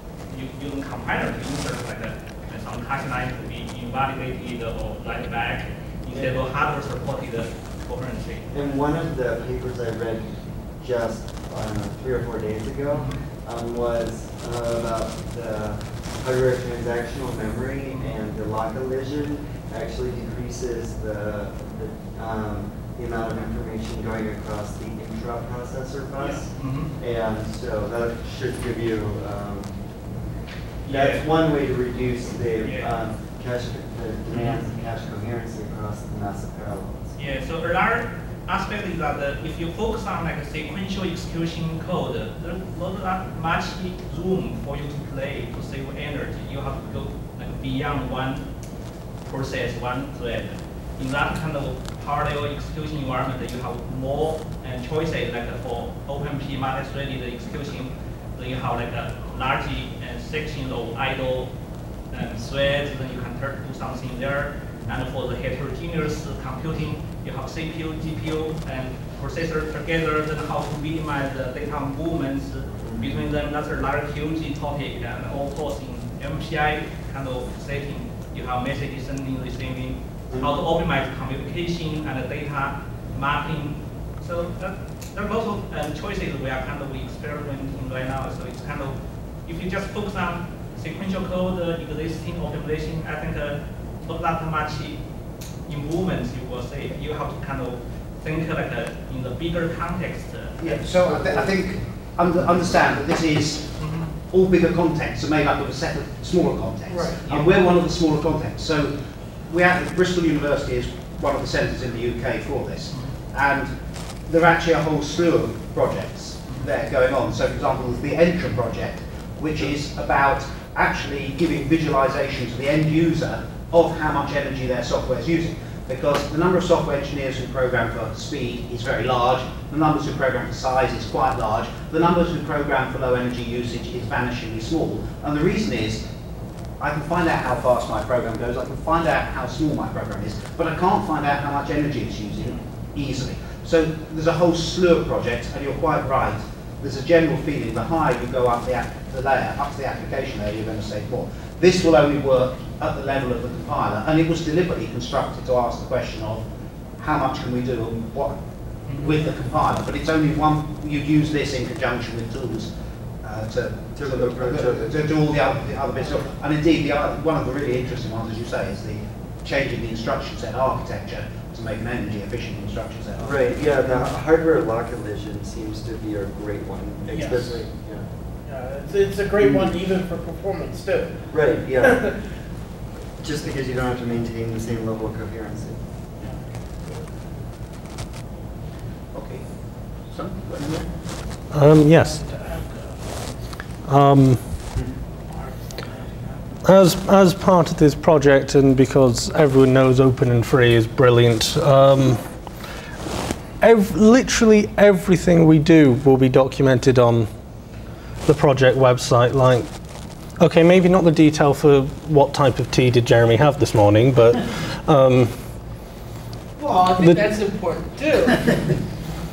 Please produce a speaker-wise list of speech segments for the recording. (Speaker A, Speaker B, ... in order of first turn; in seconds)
Speaker A: 0.3-8.6, 26.2-26.9, 30.9-31.2, 32.6-32.9, 34.3-34.6, 37.2-48.5, 49.3-61.5, 62.1-95.0, 95.7-101.2, 103.8-104.1
Speaker B: 8.5-29.8, 30.9-37.1, 72.8-73.2, 164.0-165.0, 173.2-178.0, 181.3-182.1, 183.2-185.8
Speaker C: 100.6-103.7, 104.3-109.0, 109.5-113.7, 114.3-136.1, 136.8-156.5, 157.0-162.7, 163.2-173.5, 189.1-189.4, 190.1-190.9
Speaker D: 106.9-107.2, 177.1-177.7, 178.4-182.2, 186.2-187.1, 192.0-193.3, 195.3-196.4, 216.6-218.7
Speaker E: 191.5-192.2, 193.8-194.5, 196.7-202.2, 203.6-207.3, 208.3-209.7, 210.4-215.3, 216.8-217.4